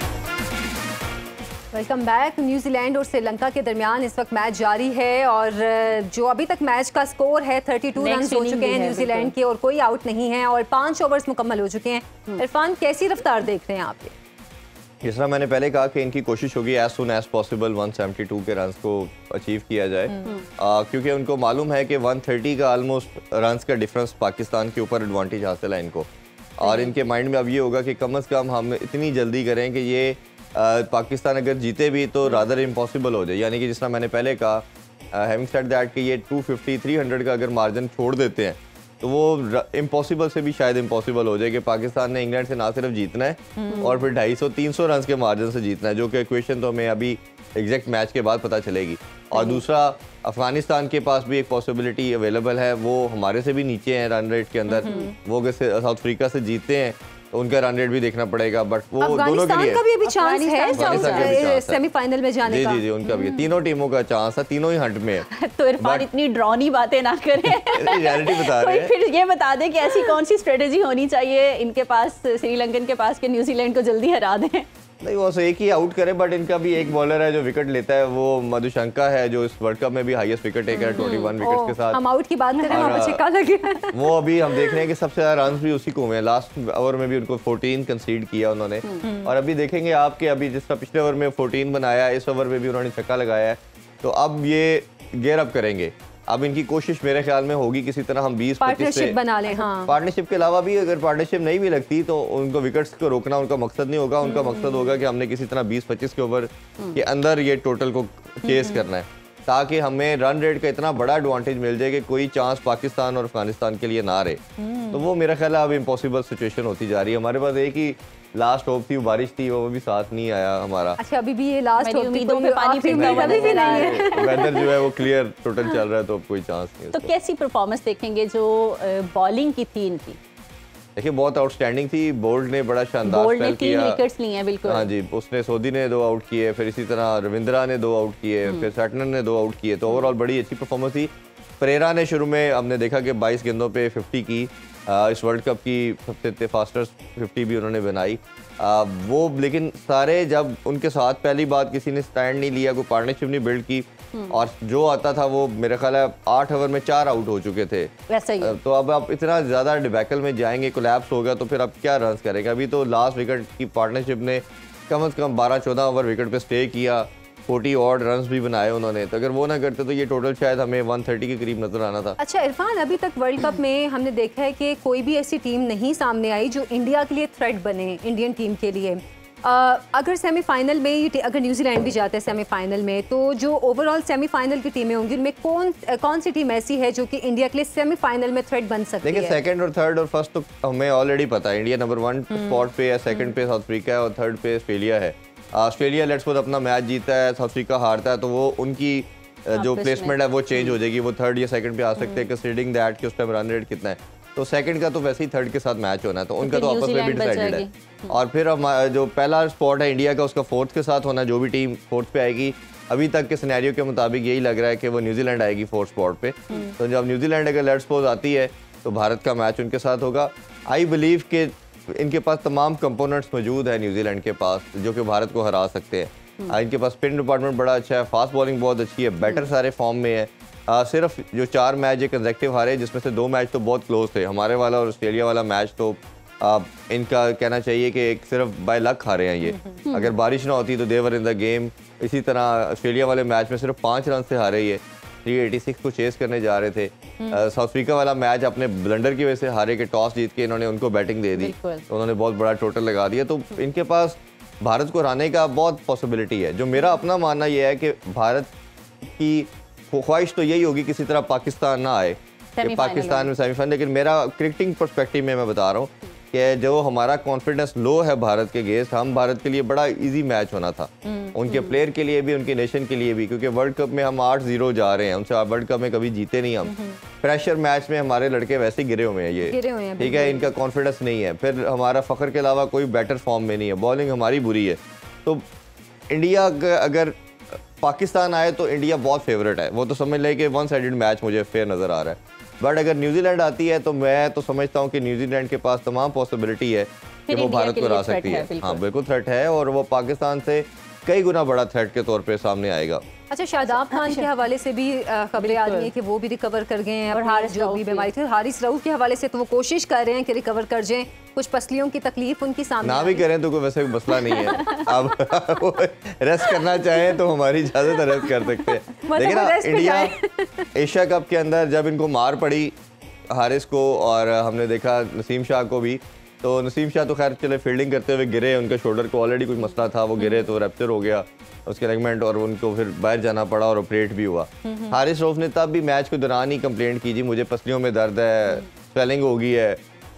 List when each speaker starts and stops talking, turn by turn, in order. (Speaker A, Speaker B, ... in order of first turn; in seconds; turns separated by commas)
Speaker A: 1.7-14.2, Speaker B: 8.0-9.3, Speaker C: 15.0-59.8, Speaker A: 20.1-20.4, Speaker B: 26.6-27.0, Speaker A: 43.6-43.9, Speaker B: 43.7-44.0, Speaker B: 49.4-49.6, Speaker B: 54.7-55.1, Speaker A: 54.8-55.1, Speaker A: 59.0-63.5, Speaker B: 60.1-61.4, Speaker C: 60.7-61.8, Speaker C: 62.4-65.3, Speaker B: 65.2-74.7, Speaker C: 65.8-66.1, Speaker C: 67.4-68.9, Speaker C: 75.0-82.0, Speaker B: 80.8-81.3, Speaker A: 81.0-84.8, Speaker B: 82.6-83.0, Speaker C: 82.7-83.2, Speaker C: 83.9-121.0, Speaker A: 89.0-89.3, Speaker A: 98.6-100.0, Speaker B: 104.2-105.0, Speaker B: 108.5-108.8, Speaker A: 114.6-115.1, Speaker A: 121.0-124.8, Speaker B: 121.8-124.6, Speaker C: 122.9-127.1, Speaker B: 126.9-130.2, Speaker C: 131.0-134.0, Speaker B: 133.1-134.9, Speaker C: 134.6-172.2, Speaker B: 154.1-154.4, Speaker B: 158.1-158.6, Speaker A: 172.2-189.4, Speaker C: 189.0-258.5, Speaker B: 199.5-200.8, Speaker B: 202.0-202.3, Speaker B: 206.4-208.2, Speaker B: 216.5-216.8, Speaker A: 239.5-239.8, Speaker B: 239.9-240.2, Speaker B: 251.4-251.8, Speaker C: 259.1-285.4, Speaker B: 262.6-263.3, Speaker B: 271.2-271.8, Speaker B: 276.6-277.0, Speaker A: 279.5-280.5, Speaker C: 286.1-287.1, Speaker C: 287.7-303.0, Speaker B: 297.3-298.8, Speaker A: 303.3-313.3, Speaker B: 303.9-304.3, Speaker B: 305.4-305.9, Speaker B: 307.1-308.1, Speaker C: 312.8-320.1, Speaker A: 314.3-314.6, Speaker B: 314.3-314.9, Speaker A: 319.0-320.7, Speaker C: 320.8-322.8, Speaker C: 323.3-339.8, Speaker B: 329.7-330.5, Speaker B: 334.6-335.0